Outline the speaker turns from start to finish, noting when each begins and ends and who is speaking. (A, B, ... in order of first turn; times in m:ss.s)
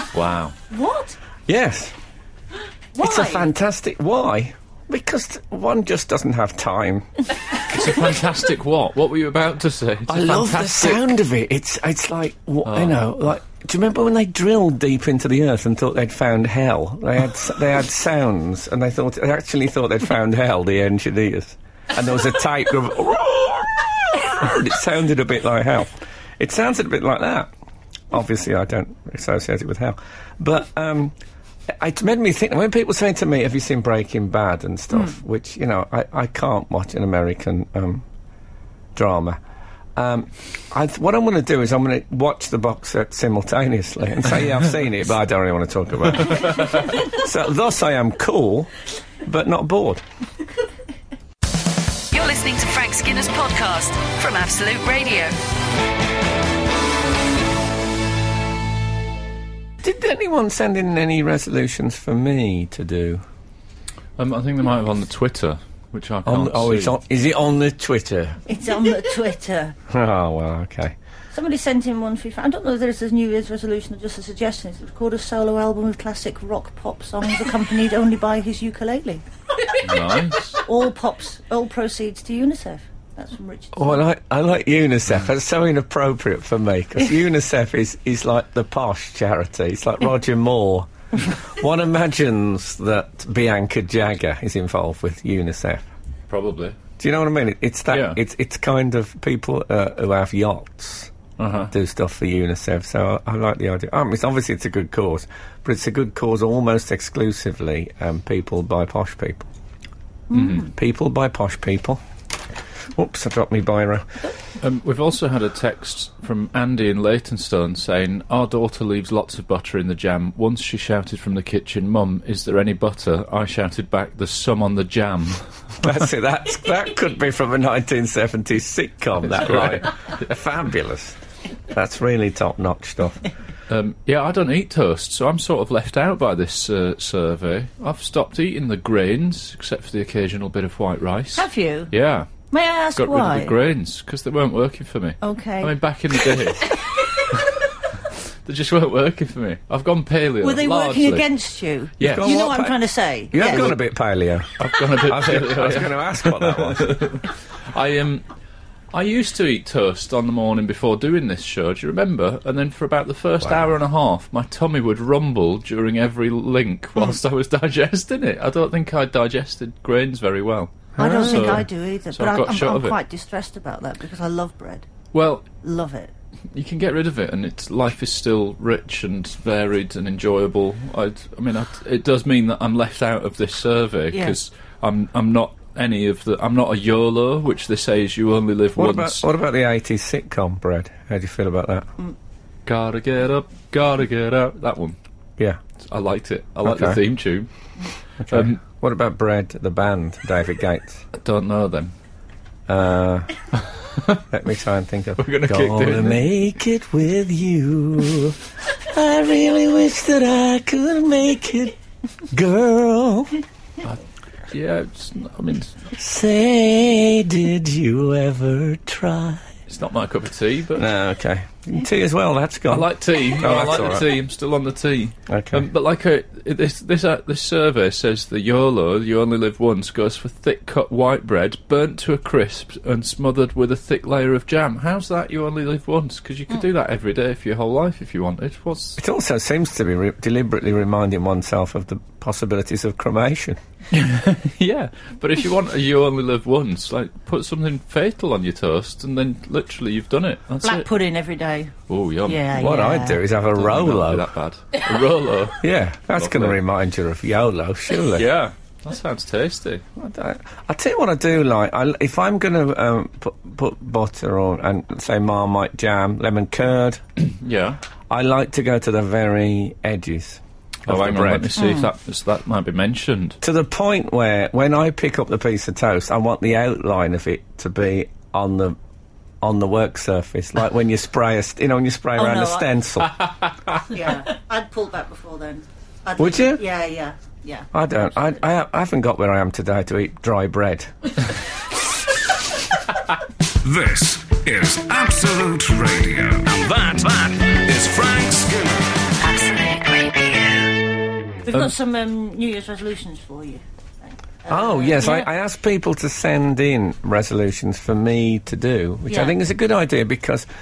0:00.1-0:00.6 A
0:00.7-0:01.2 B
0:01.5-0:01.9 C
0:02.9-0:03.5 B
0:03.0-0:07.1 C
0:07.7-0:11.1 A
0:10.1-0:27.5 C
0:12.6-0:13.0 A
0:28.1-0:31.2 C
0:31.7-0:38.0 C
0:38.9-0:39.4 C
0:40.0-0:48.7 C
0:46.4-0:46.8 A
0:49.2-0:50.0 C
0:52.1-0:55.3 D
0:59.8-1:03.2 C
1:04.2-1:07.0 A
1:06.2-1:08.4 C
1:08.5-1:09.8 B
1:09.9-1:11.0 C
1:11.3-1:19.2 B
1:19.8-1:20.6 A
1:20.6-1:24.0 B
1:23.7-1:35.9 C
1:36.3-1:36.8 A
1:37.0-1:41.1 C
1:37.9-1:38.2 A
1:41.4-1:41.7 A
1:41.7-1:49.5 C
1:50.3-1:50.7 A
1:50.6-1:52.0 C
1:52.9-1:54.2 C
1:54.6-2:05.4 A
2:05.8-2:11.2 C
2:09.3-2:10.1 A
2:11.7-2:13.2 C
2:13.7-2:26.8 A
2:21.3-2:21.9 B
2:22.5-2:23.6 B
2:25.2-2:26.4 B
2:27.3-2:31.2 A
2:30.4-2:33.8 B
2:32.0-2:32.4 A
2:32.0-2:32.8 C
2:33.3-2:37.0 C
2:33.4-2:33.7 A
2:34.6-2:38.2 A
2:38.9-2:53.0 A
2:51.0-2:51.6 C
2:51.0-2:54.9 B
2:55.1-2:55.4 A
2:55.6-2:56.1 B
2:56.5-3:09.3 A
3:04.1-3:04.4 B
3:08.8-3:11.9 C
3:12.6-3:15.0 A
3:15.9-3:17.5 A
3:16.6-3:17.0 C
3:18.2-3:21.0 C
3:18.3-3:18.6 A
3:21.1-3:21.9 A
3:22.7-3:23.3 C
3:23.6-3:24.2 A
3:24.3-3:31.8 C
3:25.2-3:26.4 A
3:32.3-3:33.4 C
3:33.8-3:35.9 A
3:35.9-3:39.5 C
3:39.7-3:40.9 A
3:40.8-3:44.1 C
3:42.7-3:59.0 A
3:45.3-3:45.7 C
3:59.0-4:03.6 C
4:03.9-4:10.9 A
4:10.6-4:11.7 B
4:11.9-4:12.5 A
4:12.2-4:13.2 B
4:12.5-4:14.2 C
4:13.4-4:16.6 A
4:15.6-4:18.2 C
4:18.1-4:19.8 A
4:20.0-4:27.0 C
4:27.3-4:27.8 A
4:28.1-4:31.5 C
4:30.8-4:33.4 A
4:31.6-4:31.9 B
4:33.4-4:38.8 C
4:39.4-4:43.2 C
4:42.2-4:42.7 B
4:43.9-4:47.7 B
4:46.2-4:46.6 C
4:47.7-4:51.1 C
4:53.6-4:58.8 E
4:59.2-5:00.7 D
5:01.4-5:05.3 B
5:04.5-5:10.5 C
5:09.1-5:09.4 B